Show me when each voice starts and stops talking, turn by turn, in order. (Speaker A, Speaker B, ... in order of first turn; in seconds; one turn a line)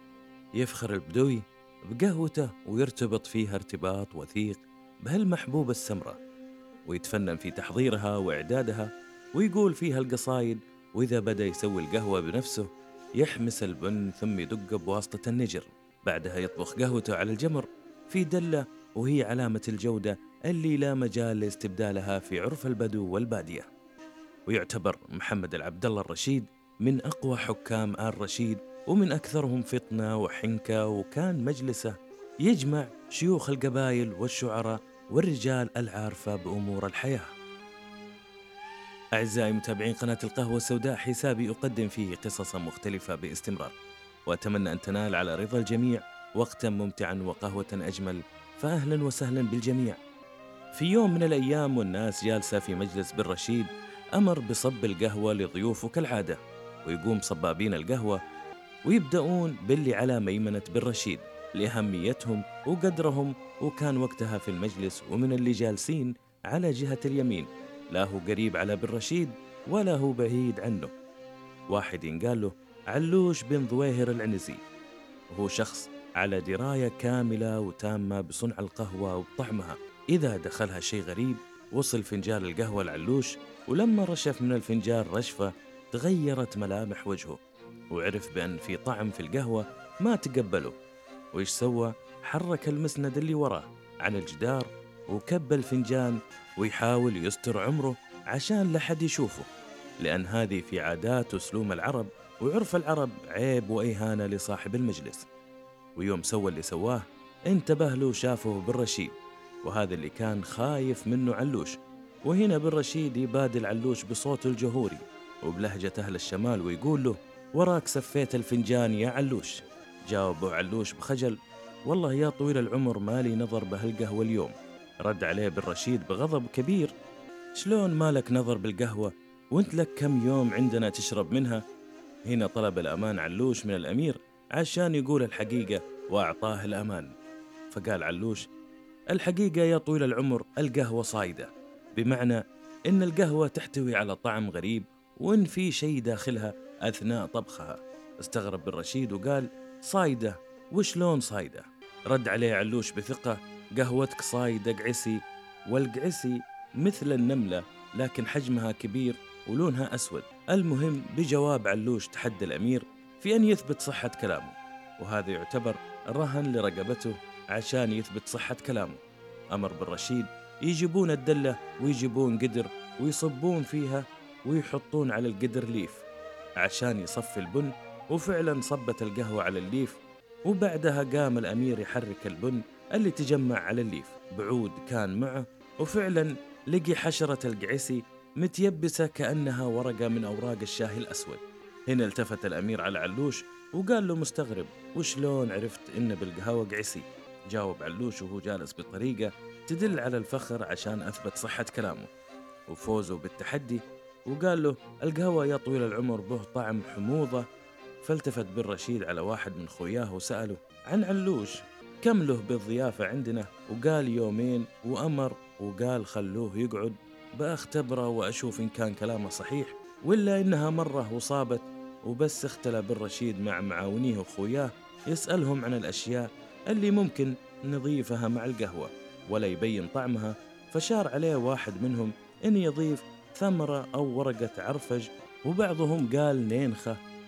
Speaker A: 0.6-6.2
Speaker A: 6.9-23.7
Speaker A: 24.5-31.9
Speaker A: 32.5-37.3
Speaker A: 39.1-43.7
Speaker A: 44.3-50.0
Speaker A: 50.7-58.2
Speaker A: 58.9-70.9
Speaker A: 71.7-74.6
Speaker A: 75.3-87.4
Speaker A: 87.9-90.8
Speaker A: 91.3-99.5
Speaker A: 100.0-105.3
Speaker A: 106.0-126.9
Speaker A: 127.6-131.6
Speaker A: 132.3-137.1
Speaker A: 137.7-138.4
Speaker A: 139.1-169.0
Speaker A: 169.5-176.1
Speaker A: 176.6-202.1
Speaker A: 202.7-207.4
Speaker A: 208.0-237.0